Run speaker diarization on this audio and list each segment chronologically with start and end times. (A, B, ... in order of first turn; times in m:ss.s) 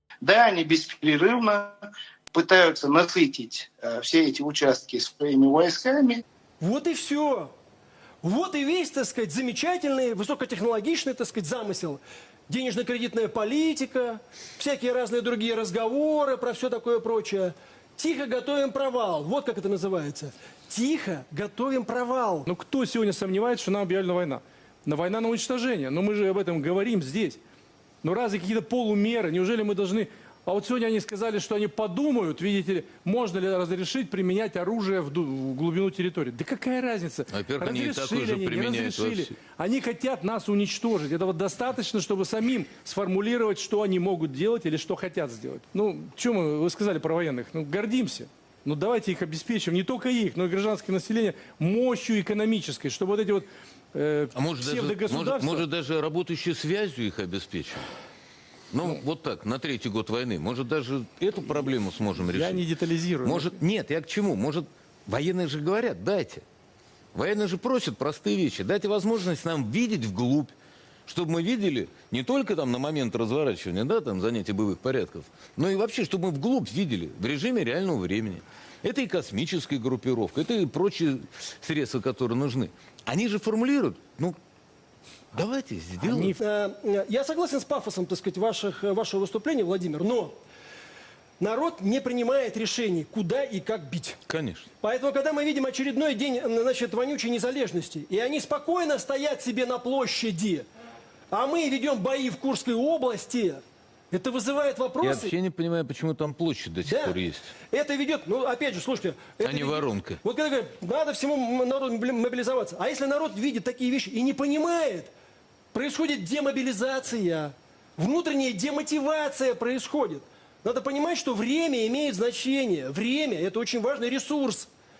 0:00.2-0:01.8 A
0:02.3-0:06.2 A
0:06.6-0:07.5 B
0:08.2-0:22.5 B
0:22.5-0:27.4 C
0:28.0-0:55.7 C
0:37.3-0:39.3 D
0:54.3-0:57.9 D
0:58.7-1:02.6 D
1:01.4-1:03.6 C
1:03.2-1:06.4 D
1:07.1-1:10.5 D
1:11.0-1:24.4 D
1:25.3-1:26.3 D
1:26.0-1:26.4 C
1:26.3-1:30.4 B
1:31.4-1:34.2 B
1:34.3-1:34.7 D
1:34.8-1:40.6 B
1:41.3-1:45.3 B
1:45.0-1:47.4 D
1:46.8-1:55.1 B
1:49.4-1:50.2 D
1:55.7-2:04.7 B